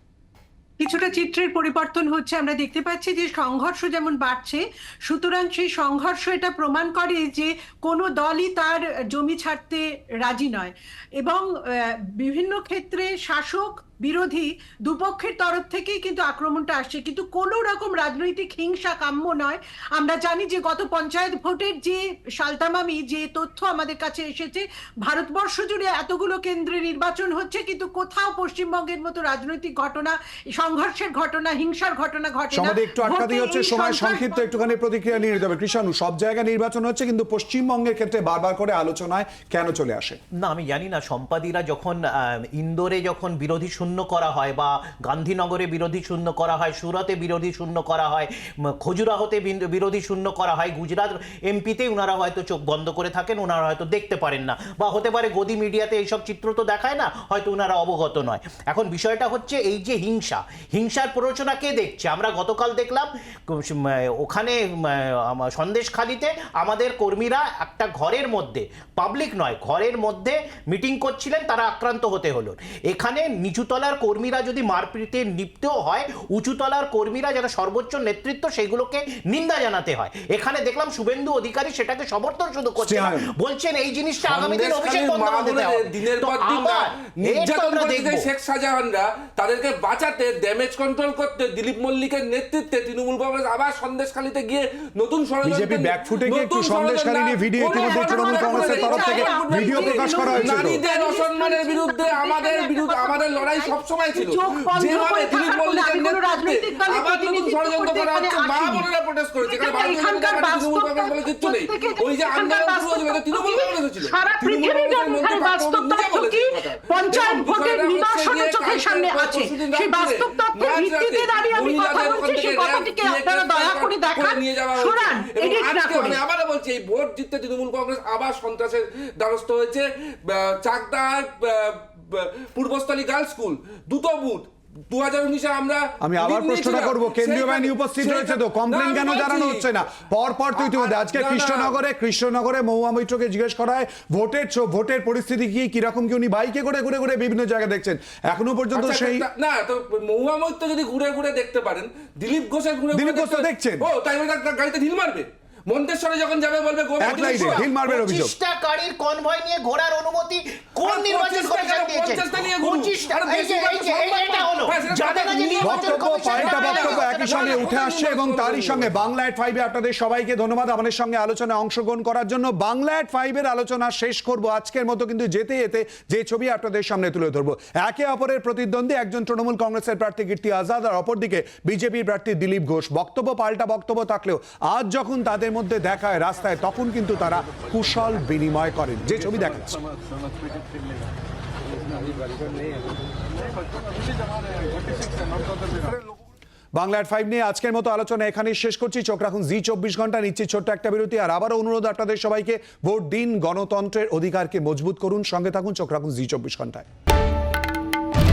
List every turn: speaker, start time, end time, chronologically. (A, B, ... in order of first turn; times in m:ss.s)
0:00.8-0:34.8 A
0:32.5-0:40.2 B
0:40.4-1:28.3 C
1:22.8-1:23.3 B
1:24.2-2:19.8 D
1:35.4-1:40.8 B
1:37.6-1:48.9 A
1:49.4-2:06.2 A
2:16.0-2:29.2 B
2:20.5-2:21.8 D
2:28.7-2:37.6 D
2:32.9-2:33.9 B
2:37.0-2:38.3 B
2:37.0-2:47.9 C
2:40.8-2:49.0 D
2:45.6-3:09.8 B
3:16.8-3:26.8 B